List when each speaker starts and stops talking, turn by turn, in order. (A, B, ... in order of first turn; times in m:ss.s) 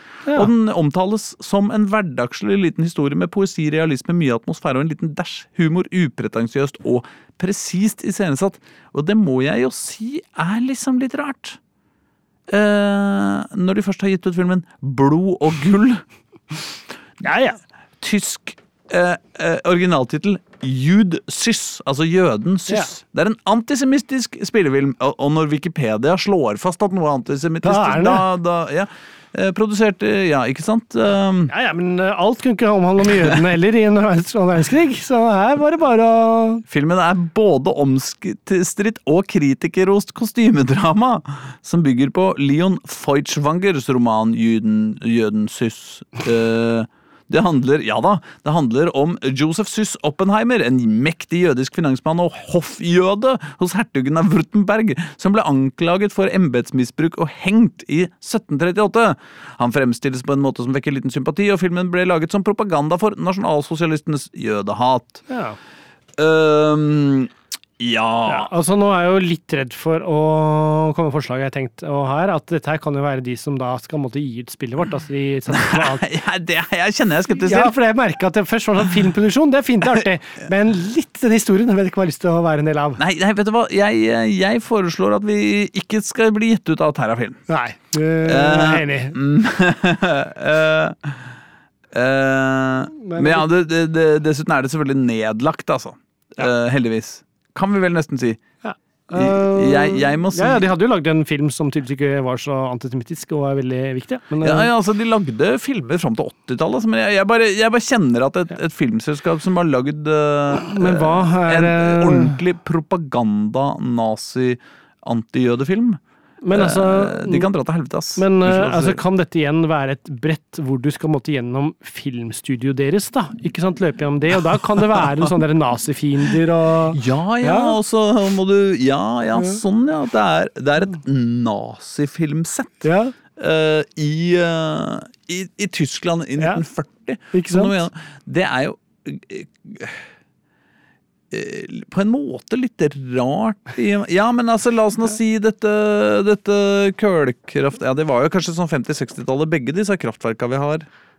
0:00.3-0:11.6 A
0:12.5-0:16.0 A
0:17.2-0:17.6 B
0:18.0-0:31.5 A
0:27.6-0:28.2 B
0:31.5-0:36.6 B
0:36.7-1:05.2 A
1:05.3-1:05.6 B
1:06.2-1:08.5 A
1:08.3-1:16.1 B
1:15.5-1:17.7 A
1:17.4-1:23.0 B
1:23.0-1:27.4 A
1:27.5-1:29.2 B
1:28.2-1:31.2 A
1:31.9-1:38.4 A
1:33.0-1:33.5 B
1:38.6-1:44.7 B
1:39.1-1:40.7 A
1:44.4-1:56.0 A
1:50.5-1:52.4 B
1:56.4-1:57.5 B
1:56.5-1:59.0 A
1:58.2-2:07.8 B
2:06.9-2:20.0 A
2:09.3-2:09.6 B
2:12.8-2:13.1 B
2:16.4-2:16.6 B
2:17.3-2:17.8 B
2:21.3-2:30.9 A